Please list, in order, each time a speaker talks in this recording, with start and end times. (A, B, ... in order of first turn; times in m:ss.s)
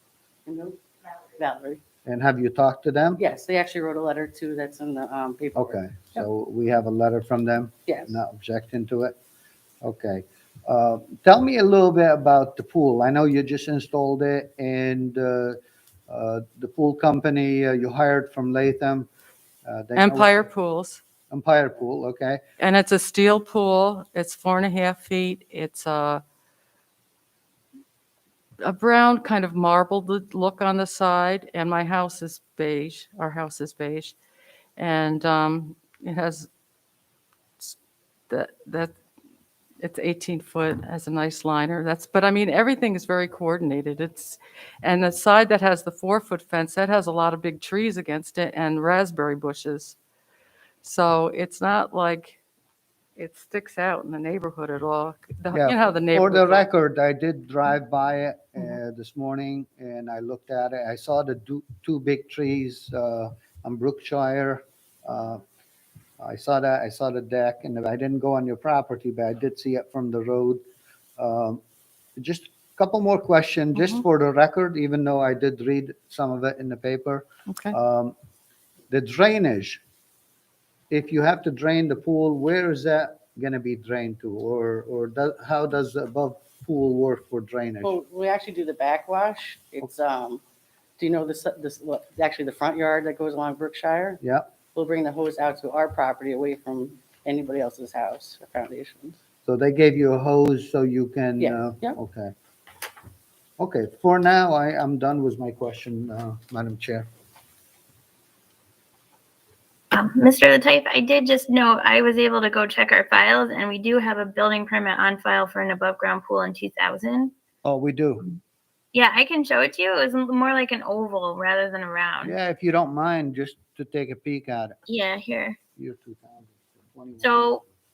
0:00.5-0:01.8 A
0:02.1-0:03.2 B
0:03.2-0:06.3 A
0:05.6-0:09.1 B
0:07.9-0:08.2 A
0:09.8-0:15.6 B
0:16.1-0:19.1 B
0:19.6-0:20.5 B
0:20.0-0:21.0 C
0:21.3-0:22.4 B
0:22.6-0:26.2 C
0:28.6-0:34.2 C
0:34.8-0:36.5 C
0:38.3-0:38.9 C
0:39.8-0:50.0 C
0:50.8-0:52.4 C
0:53.2-0:56.7 C
0:55.5-1:05.4 B
1:06.2-1:10.6 B
1:11.2-1:11.6 B
1:12.2-1:18.1 B
1:13.7-1:14.0 C
1:17.5-1:17.8 C
1:18.9-1:19.8 B
1:20.9-1:28.0 B
1:27.8-1:30.4 A
1:31.0-1:34.2 A
1:34.2-1:34.5 B
1:34.7-1:39.2 A
1:39.4-1:42.3 B
1:41.4-1:42.0 A
1:43.6-1:47.1 B
1:49.9-1:57.3 D
1:57.6-1:58.3 B
1:58.9-2:02.4 D
2:02.2-2:04.8 B
2:04.9-2:05.6 D
2:05.8-2:07.6 B
2:07.2-2:07.6 D